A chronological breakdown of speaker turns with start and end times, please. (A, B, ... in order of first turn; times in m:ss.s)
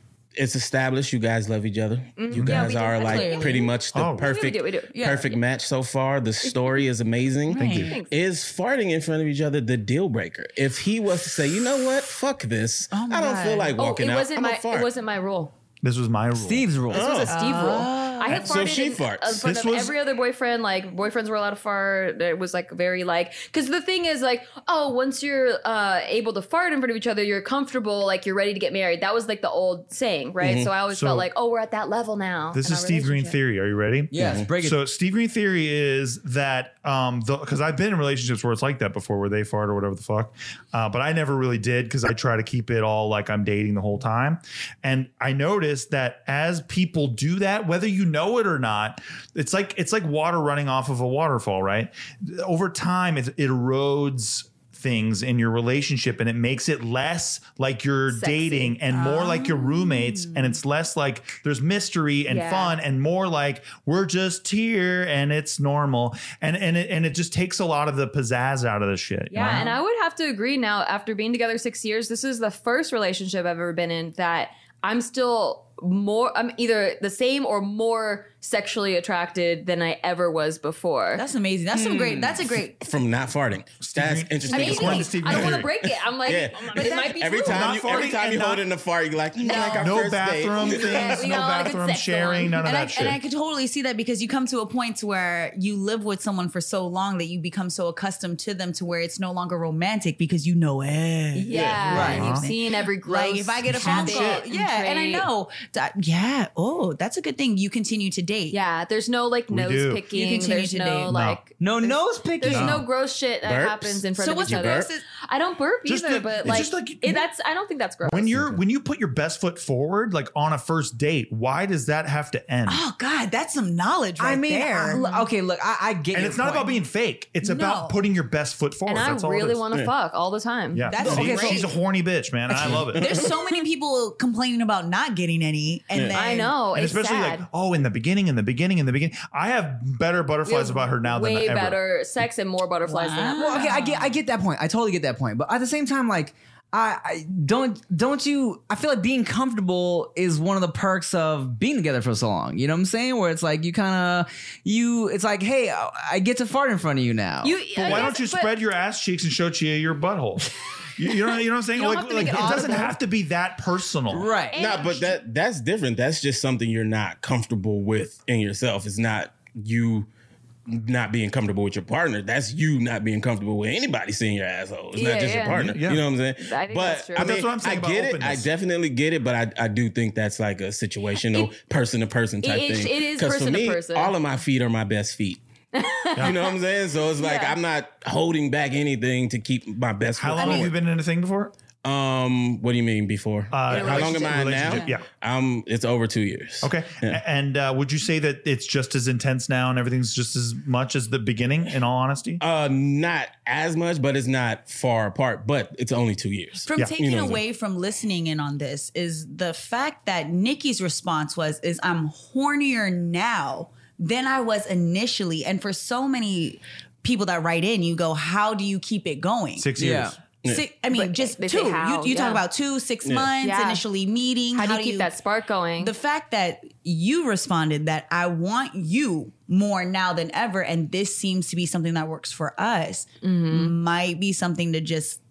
0:00.3-0:14.9 A
0:02.2-0:05.3 B
0:02.5-0:03.7 C
0:03.9-0:04.3 D
0:04.9-0:05.3 C
0:07.5-0:08.0 C
0:07.6-0:07.9 D
0:07.7-0:08.1 B
0:12.9-0:13.7 C
0:13.8-0:15.5 B
0:15.8-0:16.8 D
0:16.3-0:17.8 E
0:16.9-0:19.4 A
0:16.9-0:33.4 B
0:17.3-0:18.6 C
0:19.4-0:20.0 D
0:30.4-0:30.7 A
0:30.9-0:31.3 D
0:32.5-1:09.8 D
0:34.1-0:34.8 E
0:34.2-0:34.5 A
0:58.1-0:58.8 B
0:58.9-1:00.6 C
1:02.3-1:02.8 B
1:09.3-1:21.2 B
1:09.4-1:09.7 C
1:21.1-1:22.8 C
1:21.7-1:22.4 E
1:22.8-1:25.7 A
1:23.8-1:25.7 D
1:24.5-1:27.8 B
1:26.2-1:31.2 A
1:26.7-1:27.4 C
1:27.4-1:28.6 D
1:29.4-1:30.0 C
1:29.4-1:29.8 B
1:29.5-1:33.2 D
1:30.6-1:32.6 B
1:32.6-1:48.6 C
1:41.3-1:45.3 B
1:41.5-1:42.1 A
1:41.9-1:42.3 E
1:41.9-1:42.5 D
1:43.7-1:44.5 D
1:48.5-1:58.6 B
1:49.5-1:50.0 D
1:50.1-1:51.1 C
1:51.1-1:51.4 D
1:51.6-1:52.8 E
1:52.5-1:52.8 D
1:53.4-1:54.9 A
1:54.2-1:55.0 C
1:55.8-1:57.3 D
1:58.0-2:02.8 D
2:02.6-2:05.0 C
2:04.2-2:06.8 E
2:04.9-2:05.3 B
2:06.1-2:09.6 D
2:07.4-2:08.0 C
2:08.8-2:10.9 B
2:10.7-2:13.1 D
2:10.9-2:11.8 C
2:11.0-2:11.6 E
2:12.5-2:16.6 C
2:12.6-2:13.4 A
2:15.9-2:16.2 A
2:16.1-2:17.4 B
2:16.7-2:21.8 D
2:20.4-2:23.7 B
2:22.8-2:24.1 C
2:23.4-2:37.5 E
2:37.4-2:38.5 B
2:37.7-2:44.3 D
2:41.7-2:43.0 B
2:44.1-2:44.6 E
2:44.4-2:45.2 B
2:44.6-2:50.1 A
2:50.6-3:05.4 A
2:54.9-2:55.8 B
2:55.5-2:56.0 D
2:56.4-2:57.3 B
2:57.1-2:58.5 D
3:01.2-3:01.5 B
3:02.4-3:04.1 B
3:05.7-3:06.5 B
3:06.2-3:10.7 A
3:07.2-3:07.6 B
3:10.2-3:11.5 D
3:11.8-3:17.2 A
3:13.5-3:15.0 D
3:13.7-3:14.9 B
3:16.6-3:22.4 D
3:22.4-3:27.4 A
3:26.6-3:39.7 C
3:39.6-3:40.2 D
3:39.8-3:40.2 E
3:40.4-3:45.1 C
3:40.9-3:42.4 B
3:43.0-3:43.3 A
3:43.4-3:43.8 B
3:44.5-3:45.9 B
3:45.8-3:55.2 C
3:53.2-3:53.7 B